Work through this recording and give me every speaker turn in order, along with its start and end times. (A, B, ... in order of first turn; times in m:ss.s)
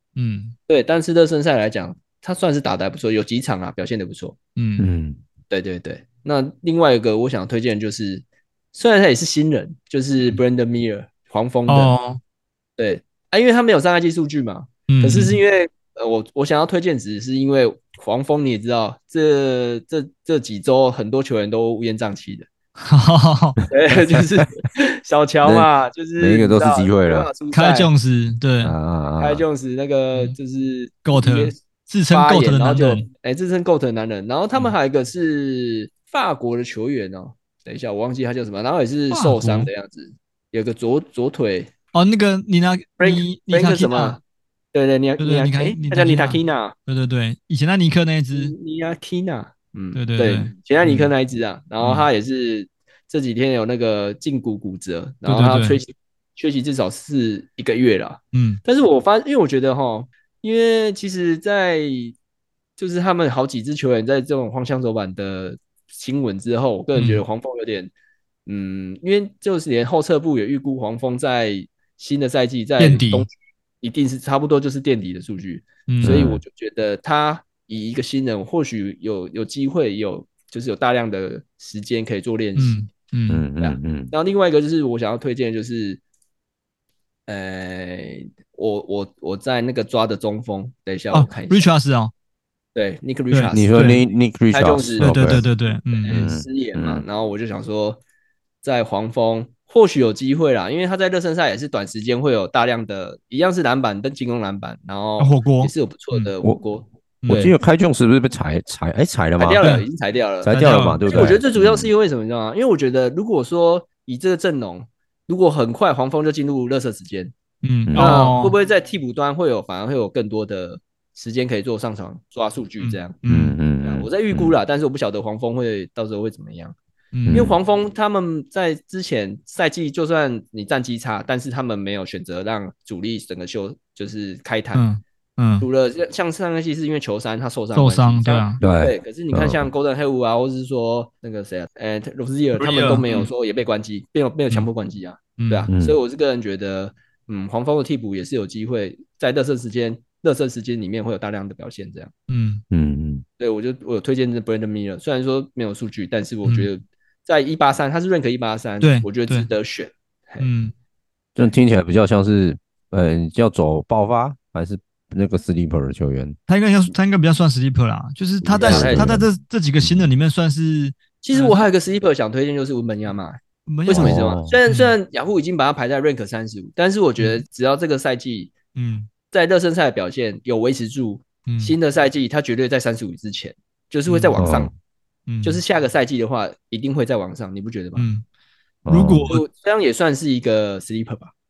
0:00.2-0:00.5 A
0:00.7-0:04.4 B
0:04.6-0:04.9 A
0:04.8-0:05.2 C
0:05.5-0:11.9 B
0:11.7-0:12.2 A
0:12.8-0:22.5 B
0:14.9-0:15.4 A
0:22.8-0:23.6 A
0:23.7-0:27.9 B
0:25.4-0:27.3 C
0:27.5-0:28.7 A
0:28.6-0:29.4 C
0:29.2-0:31.6 B
0:31.0-0:33.1 A
0:32.1-0:41.7 B
0:39.1-0:39.7 A
0:41.9-0:44.2 A
0:43.0-0:44.2 B
0:44.7-0:46.7 B
0:45.2-0:48.5 A
0:48.3-1:02.2 B
0:49.9-0:51.1 A
0:51.8-0:52.1 A
0:55.2-0:55.8 A
0:58.3-0:58.6 A
1:02.8-1:07.9 B
1:06.9-1:07.2 A
1:08.4-1:22.8 B
1:12.8-1:13.3 A
1:15.9-1:16.2 A
1:16.0-1:16.4 C
1:22.6-1:23.4 A
1:23.3-1:24.1 C
1:23.6-1:26.0 B
1:27.3-1:31.7 B
1:31.1-1:32.1 A
1:32.7-1:34.0 B
1:33.3-1:34.0 A
1:33.5-1:35.4 C
1:34.5-1:38.0 B
1:35.0-1:36.3 A
1:36.1-1:37.0 C
1:38.6-1:47.5 B
1:45.2-1:46.3 A
1:47.2-1:47.5 A
1:47.3-1:49.7 C
1:49.4-1:57.3 B
1:50.4-1:51.9 C
1:50.5-1:51.4 A
1:57.6-1:58.5 A
1:57.8-1:58.2 C
1:58.0-2:03.2 B
2:02.8-2:03.6 A
2:03.2-2:04.6 C
2:03.8-2:06.7 B
2:07.1-2:07.4 A
2:07.2-2:07.6 C
2:07.3-2:14.9 B
2:14.7-2:15.6 A
2:15.6-2:32.1 B
2:17.7-2:18.6 A
2:18.6-2:19.7 C
2:22.6-2:23.3 A
2:25.4-2:25.7 A
2:25.7-2:26.0 C
2:32.3-2:32.6 A
2:32.7-2:33.2 C
2:33.4-2:40.5 B
2:38.8-2:39.5 A
2:40.4-2:40.7 A
2:41.4-2:46.4 C
2:46.5-2:51.6 A
2:48.4-2:49.2 B
2:48.6-2:50.0 C
2:51.2-2:58.5 B
2:53.7-2:54.9 A
2:53.9-2:54.6 C
2:57.2-2:57.4 A
2:58.7-2:59.1 A
2:59.3-3:04.7 B
3:01.5-3:01.7 A
3:04.0-3:04.4 A
3:04.4-3:04.7 C
3:05.3-3:05.6 A
3:05.4-3:08.1 B
3:08.0-3:08.2 A
3:08.8-3:09.3 C
3:08.9-3:09.4 A
3:09.3-3:11.3 B